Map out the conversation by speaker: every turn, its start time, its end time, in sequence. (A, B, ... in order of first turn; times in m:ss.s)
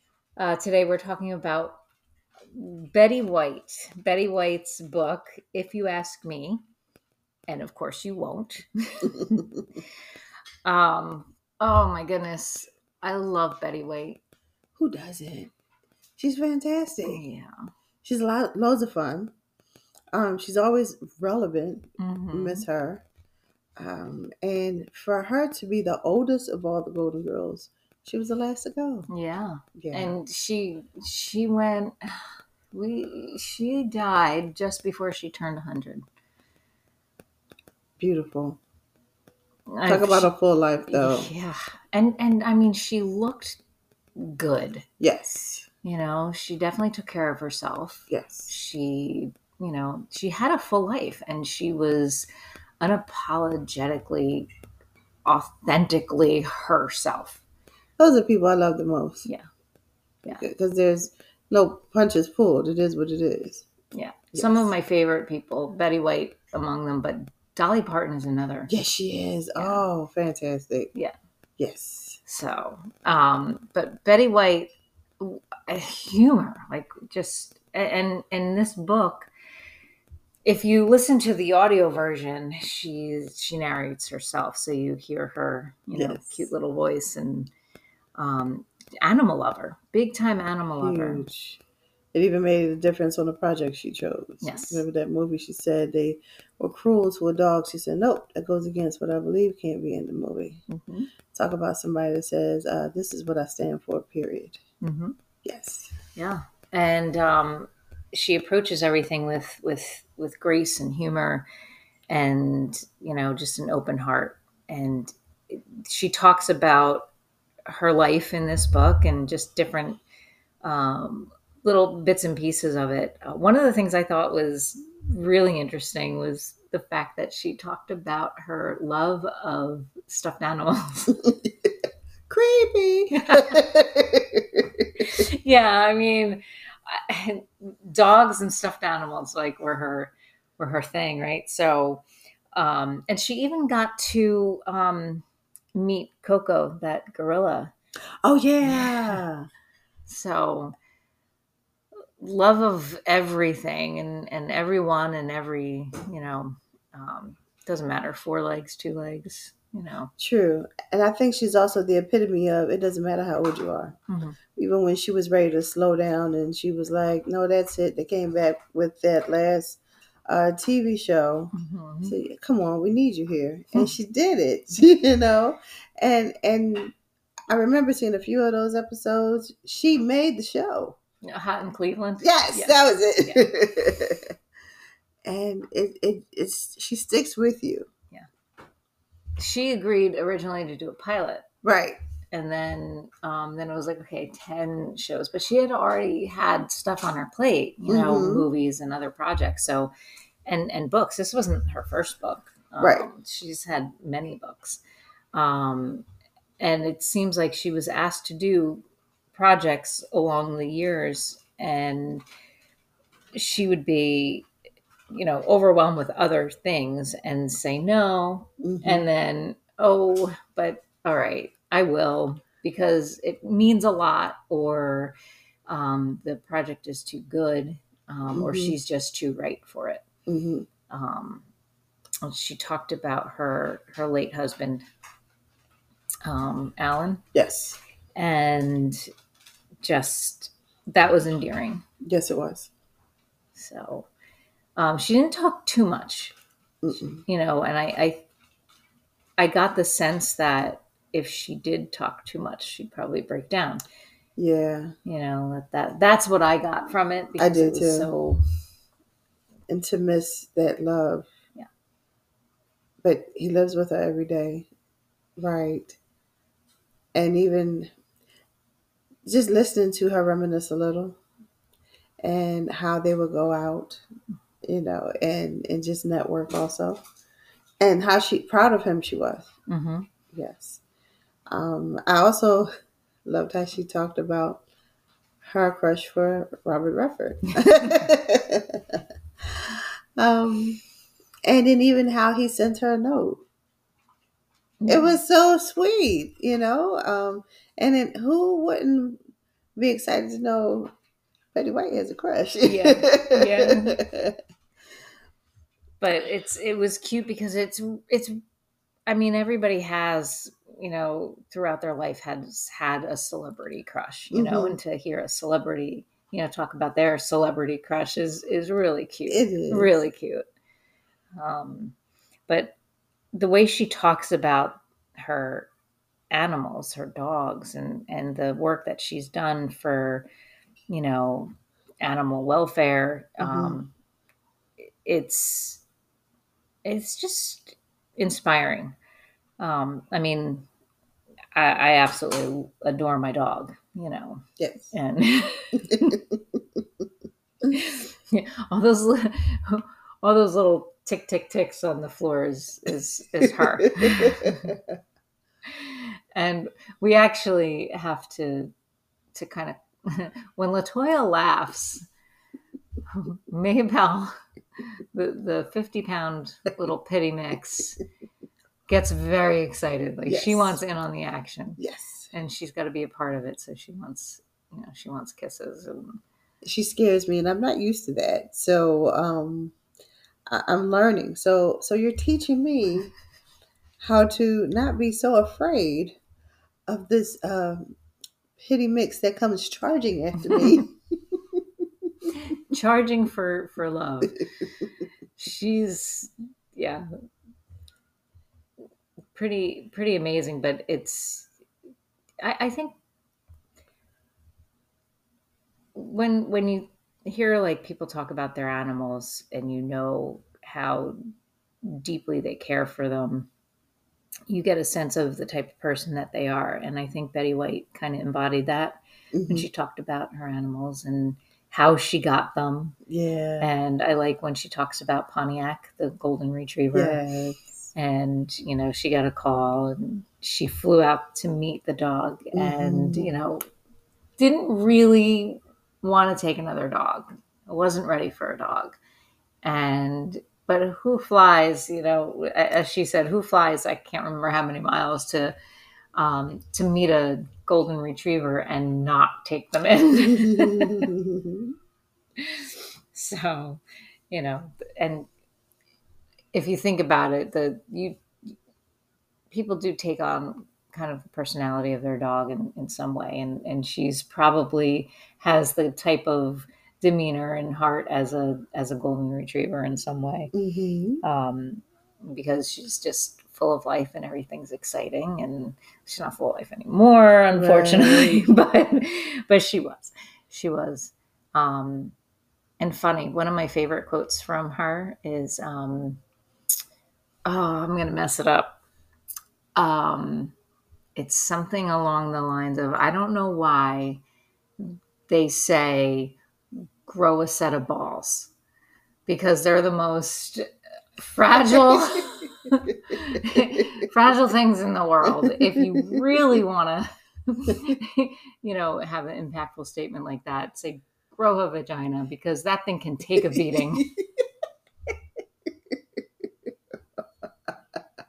0:00.4-0:01.8 A
0:02.5-0:06.6 A
0:07.5-0:09.5 A
0:10.6-0:14.2 A
0:14.8-0:15.5 B
0:16.2-0:17.2 B
0:17.0-0:17.5 A
0:18.0-0:19.3 B
0:20.1-0:23.0 B
0:22.0-0:22.7 A
0:23.8-0:29.1 B
0:29.1-0:36.0 A
0:29.8-0:30.2 B
0:38.0-0:38.6 B
0:39.7-0:40.3 A
0:39.9-0:41.3 B
0:40.9-0:43.6 A
0:44.2-0:44.8 A
0:45.0-0:45.6 B
0:45.8-0:52.3 A
0:48.1-0:48.5 B
0:52.8-0:54.5 A
0:55.3-0:57.4 A
0:58.0-0:59.3 B
1:00.2-1:03.7 B
1:03.9-1:08.7 A
1:04.3-1:04.7 B
1:08.7-1:10.9 B
1:09.6-1:09.9 A
1:11.6-1:12.2 B
1:12.3-1:19.3 A
1:20.4-1:27.5 A
1:25.9-1:26.5 B
1:28.2-1:31.3 A
1:30.8-1:31.6 B
1:32.1-1:40.6 B
1:34.4-1:34.8 A
1:40.7-1:41.1 A
1:41.3-1:44.6 B
1:44.8-1:45.2 A
1:45.4-1:45.9 B
1:46.2-1:51.5 A
1:52.1-1:57.1 A
1:57.7-2:00.0 A
2:00.6-2:11.2 A
2:12.3-2:15.1 B
2:13.2-2:13.6 A
2:15.0-2:27.7 A
2:28.2-2:29.5 B
2:28.6-2:29.2 A
2:30.1-2:30.7 A
2:32.2-2:40.1 A
2:40.2-2:44.0 B
2:44.1-2:44.4 A
2:44.6-2:51.5 B
2:51.5-2:52.2 A
2:52.0-2:56.9 B
2:57.5-3:01.0 B
3:01.2-3:03.5 A
3:02.2-3:04.3 B
3:05.2-3:07.9 B
3:09.4-3:11.4 A
3:11.6-3:12.0 B
3:12.3-3:19.9 A
3:17.9-3:18.5 B
3:20.5-3:24.8 A
3:22.8-3:23.1 B
3:25.3-3:26.0 A
3:26.6-3:32.2 A
3:33.4-3:34.5 A
3:35.1-3:45.2 A
3:38.6-3:39.1 B
3:45.7-3:50.0 A
3:48.3-3:48.8 B
3:50.3-3:50.7 B
3:50.9-3:51.4 A
3:52.2-3:54.8 A
3:56.2-3:57.2 A
3:57.4-3:57.8 B
3:58.2-3:59.1 A
3:59.8-4:01.8 A
4:02.0-4:02.7 B
4:03.6-4:04.1 A
4:04.8-4:06.4 A
4:06.8-4:07.2 B
4:06.9-4:08.2 A
4:09.4-4:13.8 A
4:14.4-4:15.0 B
4:15.1-4:18.4 A
4:17.4-4:18.1 B
4:19.7-4:21.3 B
4:23.0-4:24.7 B
4:25.4-4:26.0 B
4:27.1-4:27.9 B
4:29.3-4:31.2 B
4:32.2-4:34.0 B
4:34.6-4:37.0 B
4:37.8-4:39.5 B
4:39.7-4:40.1 A
4:40.3-4:40.8 B
4:41.5-4:42.7 B
4:43.2-4:44.6 B
4:45.4-4:50.8 B
4:47.6-4:48.1 A
4:51.5-4:53.4 B
4:54.8-4:55.2 A
4:54.9-4:59.2 B
4:59.8-5:00.9 B
5:01.5-5:04.4 B
5:02.6-5:04.0 A
5:06.0-5:08.4 A
5:09.1-5:20.4 A
5:14.3-5:14.8 B
5:19.3-5:20.0 B
5:21.4-5:22.0 A
5:22.5-5:22.8 A
5:23.3-5:25.7 A
5:26.3-5:30.3 A
5:30.9-5:33.9 A
5:33.4-5:33.8 B
5:35.0-5:35.8 A
5:36.8-5:39.0 A
5:39.6-5:40.7 A
5:41.6-5:46.2 A
5:44.6-5:44.9 B
5:45.9-5:46.4 B
5:47.7-5:54.8 A
5:53.6-5:54.8 B
5:55.7-5:58.7 A
5:59.3-6:02.0 A
6:03.1-6:04.3 A
6:05.1-6:08.0 A
6:08.9-6:11.8 A
6:10.3-6:10.8 B
6:11.8-6:12.3 B
6:12.3-6:16.2 A
6:16.6-6:19.8 B
6:20.5-6:23.1 B
6:24.0-6:26.2 B
6:26.9-6:28.0 B
6:28.6-6:31.4 B
6:32.3-6:34.5 A
6:35.4-6:37.1 A
6:39.3-6:41.5 A
6:42.4-6:43.0 A
6:46.0-6:51.2 A
6:51.8-6:53.5 A
6:54.5-7:03.0 A
6:59.3-6:59.7 B
7:03.1-7:03.7 B
7:03.6-7:07.2 A
7:06.9-7:07.9 B
7:08.0-7:13.6 A
7:12.6-7:13.3 B
7:14.4-7:19.0 A
7:19.6-7:25.6 A
7:26.2-7:31.1 A
7:30.2-7:31.7 B
7:32.4-7:35.3 A
7:36.5-7:38.2 A
7:39.5-7:50.5 A
7:50.5-7:51.2 B
7:51.2-8:02.2 A
7:57.5-7:58.4 B
8:02.8-8:06.2 A
8:07.4-8:08.8 A
8:09.8-8:10.5 A
8:11.2-8:14.2 A
8:14.8-8:16.4 A
8:17.0-8:18.5 A
8:19.3-8:20.7 A
8:21.2-8:34.1 A
8:33.4-8:34.2 B
8:37.7-8:38.0 B